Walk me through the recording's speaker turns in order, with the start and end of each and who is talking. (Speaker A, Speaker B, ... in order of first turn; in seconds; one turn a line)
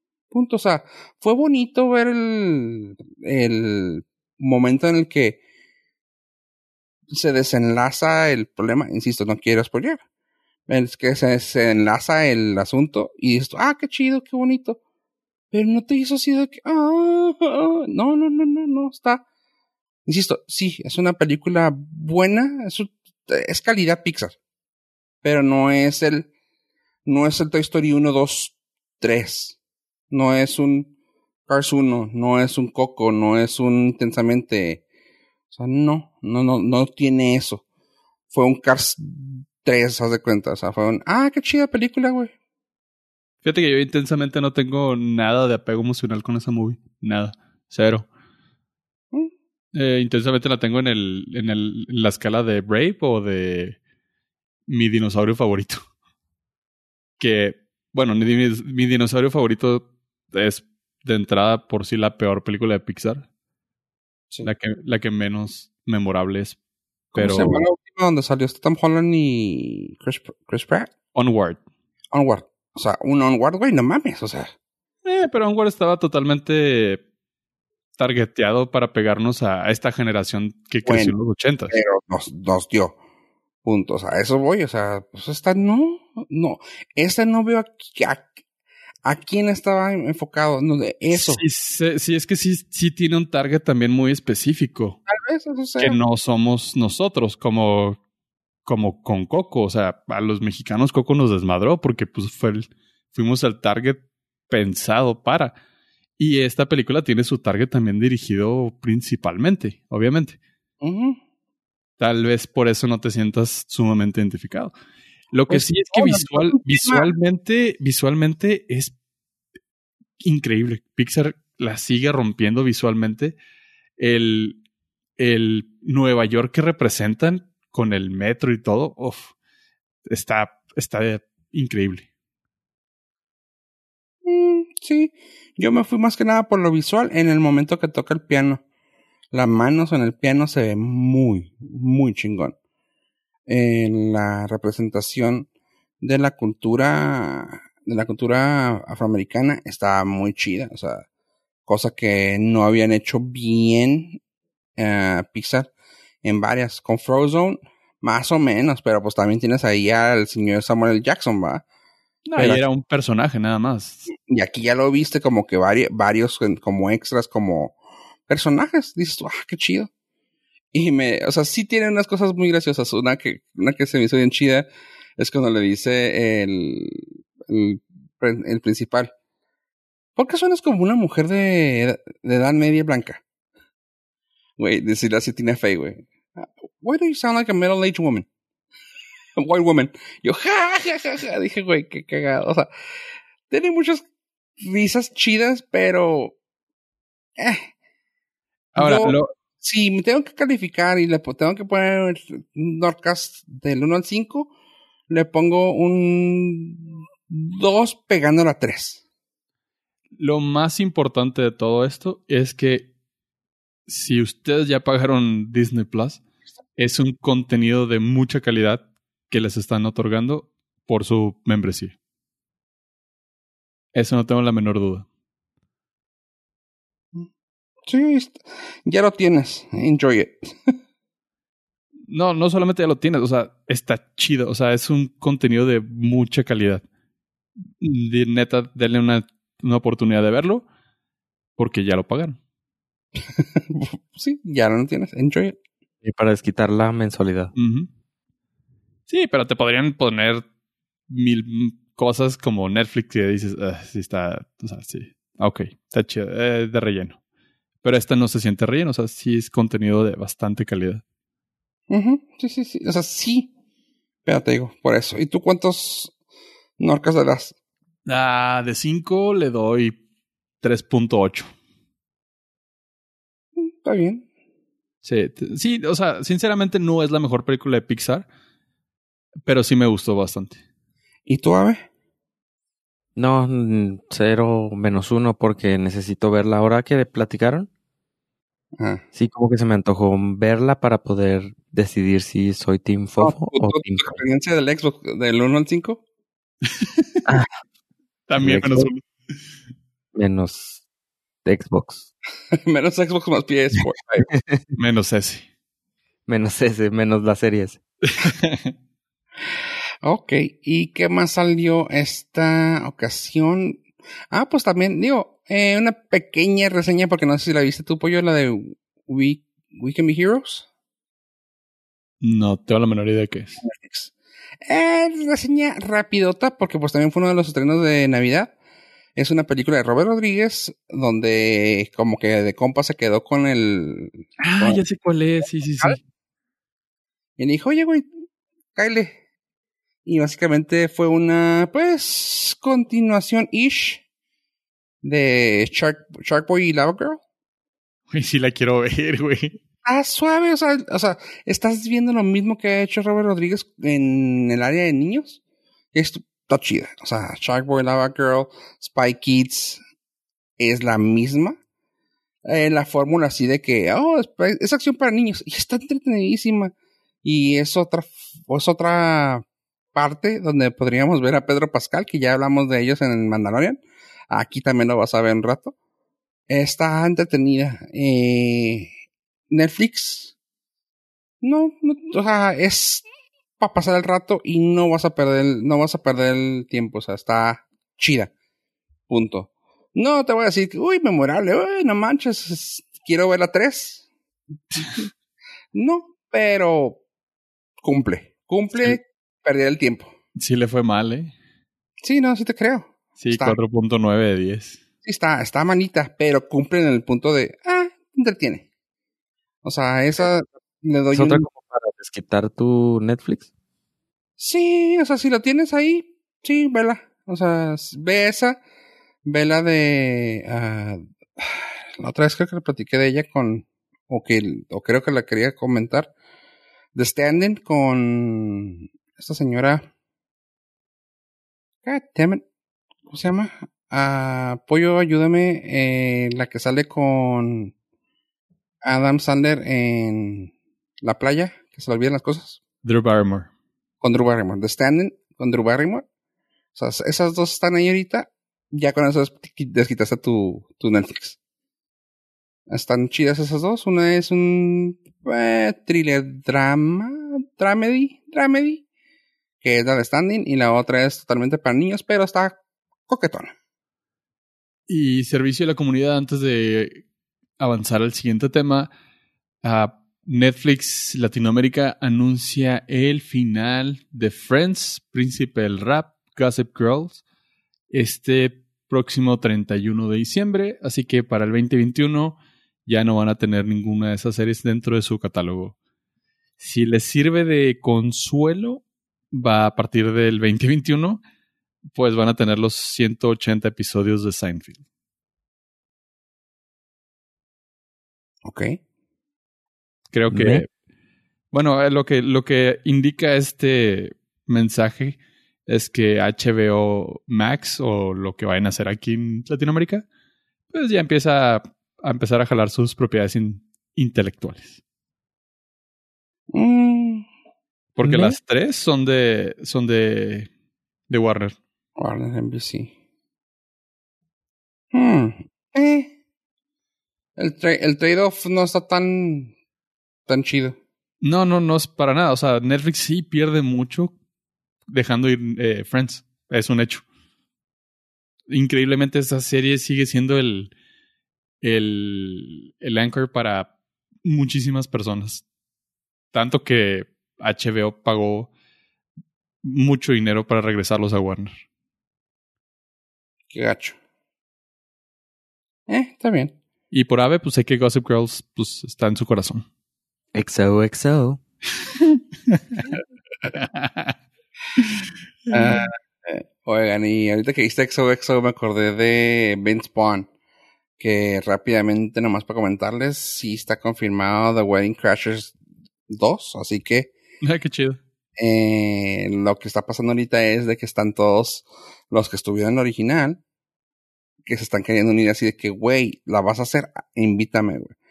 Speaker A: 0.3-5.4
Speaker A: 7.1-10.0
Speaker A: 10.7-14.8
Speaker A: 15.5-19.2
Speaker A: 20.1-24.4
Speaker A: 25.2-26.3
Speaker A: 27.1-29.6
Speaker A: 30.1-30.9
Speaker A: 31.5-34.8
Speaker A: 35.5-37.6
Speaker A: 38.3-42.3
Speaker B: 43.4-48.1
Speaker B: 49.7-53.8
Speaker B: 54.7-55.8
Speaker B: 57.2-63.2
Speaker B: 64.4-66.6
Speaker B: 67.1-67.7
Speaker A: 67.1-70.9
Speaker B: 71.1-71.6
Speaker A: 72.1-74.5
Speaker B: 75.0-77.0
Speaker B: 78.0-81.8
Speaker A: 80.8-81.2
Speaker A: 81.7-83.0
Speaker A: 83.6-88.3
Speaker A: 89.0-91.4
Speaker B: 91.1-95.0
Speaker A: 95.1-96.0
Speaker B: 95.8-98.0
Speaker B: 98.7-105.5
Speaker B: 106.2-110.4
Speaker A: 110.8-111.2
Speaker B: 112.0-114.7
Speaker B: 115.3-118.9
Speaker A: 115.5-117.1
Speaker B: 120.2-123.3
Speaker B: 124.0-124.6
Speaker B: 125.2-129.3
Speaker B: 130.1-132.1
Speaker A: 134.2-138.6
Speaker A: 139.3-142.5
Speaker A: 143.5-145.5
Speaker A: 146.0-151.1
Speaker A: 151.7-154.2
Speaker A: 154.8-155.7
Speaker A: 156.2-161.6
Speaker B: 162.3-164.1
Speaker A: 162.4-162.6
Speaker A: 164.2-167.8
Speaker A: 168.3-169.9
Speaker A: 170.7-174.7
Speaker A: 175.2-179.1
Speaker A: 180.2-183.2
Speaker A: 184.6-188.3
Speaker A: 189.4-192.7
Speaker A: 193.5-194.0
Speaker A: 194.6-196.3
Speaker A: 197.4-197.7
Speaker A: 198.7-204.5
Speaker B: 198.8-199.3
Speaker A: 205.1-209.0
Speaker B: 210.2-212.9
Speaker B: 213.9-216.2
Speaker B: 216.8-221.9
Speaker B: 223.9-225.1
Speaker A: 227.8-230.7
Speaker B: 232.1-236.8
Speaker B: 237.8-240.7
Speaker B: 241.6-242.4
Speaker A: 243.2-245.6
Speaker C: 246.0-247.5
Speaker B: 247.5-247.9
Speaker B: 249.1-250.4
Speaker B: 251.1-257.2
Speaker B: 257.8-261.0
Speaker A: 261.9-263.5
Speaker A: 264.2-266.1
Speaker A: 266.8-267.5
Speaker B: 268.1-270.0
Speaker B: 270.6-271.5
Speaker A: 273.6-274.2
Speaker B: 275.0-278.3
Speaker B: 279.4-280.6
Speaker A: 281.3-281.8
Speaker C: 283.1-287.7
Speaker A: 288.8-289.0
Speaker C: 289.1-294.2
Speaker A: 293.2-296.0
Speaker B: 298.3-299.0
Speaker C: 298.4-298.9
Speaker C: 300.1-300.8
Speaker C: 301.4-302.1
Speaker A: 302.5-304.3
Speaker C: 304.3-304.6
Speaker B: 304.8-305.4
Speaker C: 306.3-307.8
Speaker B: 308.0-308.7
Speaker A: 310.0-320.7
Speaker B: 322.2-323.6
Speaker A: 323.6-324.1
Speaker A: 324.6-328.5
Speaker A: 329.1-334.8
Speaker B: 334.4-336.0
Speaker A: 337.4-338.1
Speaker A: 338.7-339.2
Speaker A: 340.1-344.0
Speaker A: 345.0-347.2
Speaker B: 348.1-349.6
Speaker A: 349.8-355.4
Speaker A: 355.9-359.8
Speaker A: 360.6-361.6
Speaker A: 362.4-366.7
Speaker A: 367.2-375.7
Speaker A: 376.5-378.9
Speaker A: 379.5-380.3
Speaker A: 381.4-383.1
Speaker A: 383.6-388.3
Speaker A: 389.1-394.0
Speaker A: 395.7-397.0
Speaker A: 397.8-400.1
Speaker B: 400.4-401.3
Speaker A: 402.0-403.6
Speaker B: 403.2-404.8
Speaker A: 405.0-408.6
Speaker A: 409.6-411.5
Speaker C: 411.1-413.5
Speaker A: 414.4-418.6
Speaker A: 419.2-426.1
Speaker A: 426.9-429.9
Speaker A: 431.8-432.4
Speaker A: 433.1-437.7
Speaker A: 438.8-442.6
Speaker B: 442.8-443.5
Speaker A: 444.0-446.0
Speaker A: 446.7-451.4
Speaker A: 452.7-458.8
Speaker A: 459.6-463.5
Speaker B: 464.9-467.0
Speaker B: 467.6-468.9
Speaker B: 469.6-477.2
Speaker B: 477.9-485.7
Speaker B: 486.6-491.2
Speaker B: 491.9-494.8
Speaker A: 498.4-498.8
Speaker B: 500.1-500.6
Speaker C: 500.3-500.6
Speaker B: 501.5-510.0
Speaker B: 510.7-514.8
Speaker A: 516.5-517.3
Speaker B: 518.0-520.5
Speaker C: 518.0-518.4
Speaker B: 521.1-521.6
Speaker A: 522.0-522.9
Speaker A: 524.9-526.1
Speaker A: 527.4-529.5
Speaker A: 530.3-530.8
Speaker B: 531.2-534.1
Speaker B: 534.9-537.0
Speaker B: 538.5-540.7
Speaker B: 541.6-543.7
Speaker B: 544.2-545.4
Speaker B: 546.3-548.5
Speaker B: 549.6-551.5
Speaker A: 553.5-554.0
Speaker A: 555.9-556.5
Speaker B: 556.9-559.6
Speaker C: 560.3-561.4
Speaker B: 563.5-564.1
Speaker B: 565.5-565.9
Speaker A: 565.5-570.3
Speaker A: 571.0-575.5
Speaker A: 576.1-577.1
Speaker B: 577.4-578.0
Speaker A: 578.4-583.4
Speaker A: 584.5-587.9